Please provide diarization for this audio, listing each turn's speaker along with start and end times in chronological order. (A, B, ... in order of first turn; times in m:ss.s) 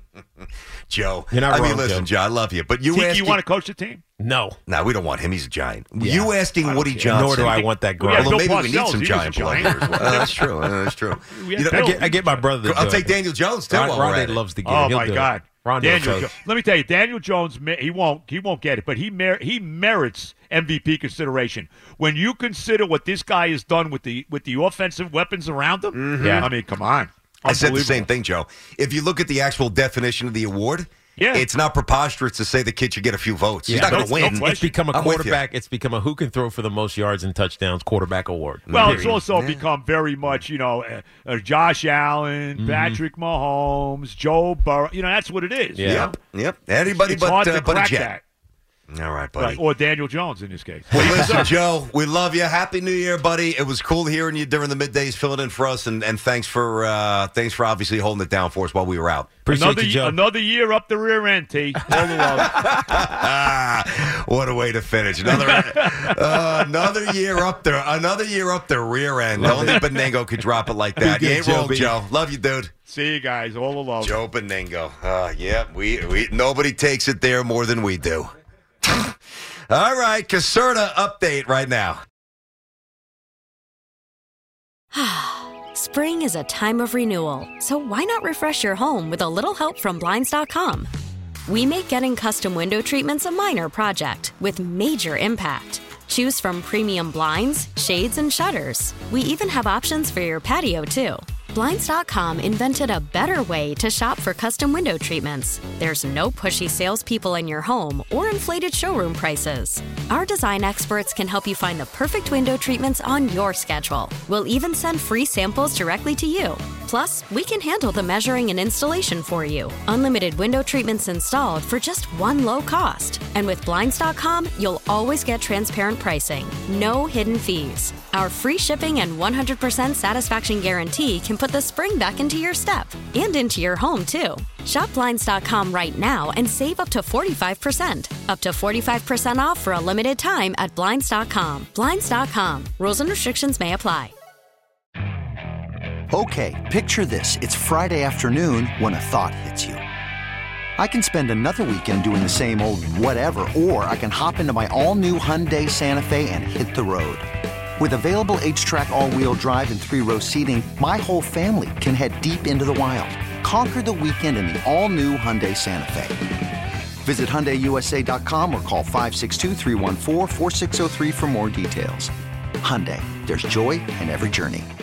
0:00.4-0:03.4 A
0:01.3-0:02.1 B
0:02.9-0:04.0 C
0:04.2-0:04.6 B
0:04.7-0:14.4 A
0:06.0-0:06.3 B
0:06.6-0:12.4 C
0:07.1-0:08.4 B
0:09.6-0:10.2 B
0:11.6-0:16.3 B
0:14.6-0:28.1 C
0:25.9-0:26.5 A
0:26.2-0:26.5 B
0:27.4-0:35.4 A
0:31.2-0:31.5 C
0:33.7-0:39.2 B
0:33.8-0:34.8 C
0:38.7-0:39.6 A
0:38.7-0:46.1 C
0:42.6-0:43.0 B
0:45.8-0:46.1 B
0:45.8-0:48.1 A
0:46.9-0:48.2 C
0:48.9-0:49.6 A
0:49.4-0:51.5 C
0:50.9-0:59.3 A
0:59.4-1:00.2 B
0:59.5-1:02.6 C
1:02.0-1:12.7 A
1:05.2-1:06.6 C
1:09.4-1:10.0 B
1:09.4-1:09.8 C
1:11.0-1:12.0 B
1:12.9-1:14.2 C
1:14.0-1:18.3 A
1:18.8-1:19.2 A
1:19.7-1:22.0 A
1:24.9-1:30.9 D
1:31.5-2:24.1 D
2:26.1-2:29.8 E
2:30.8-2:46.3 E
2:47.0-2:54.7 E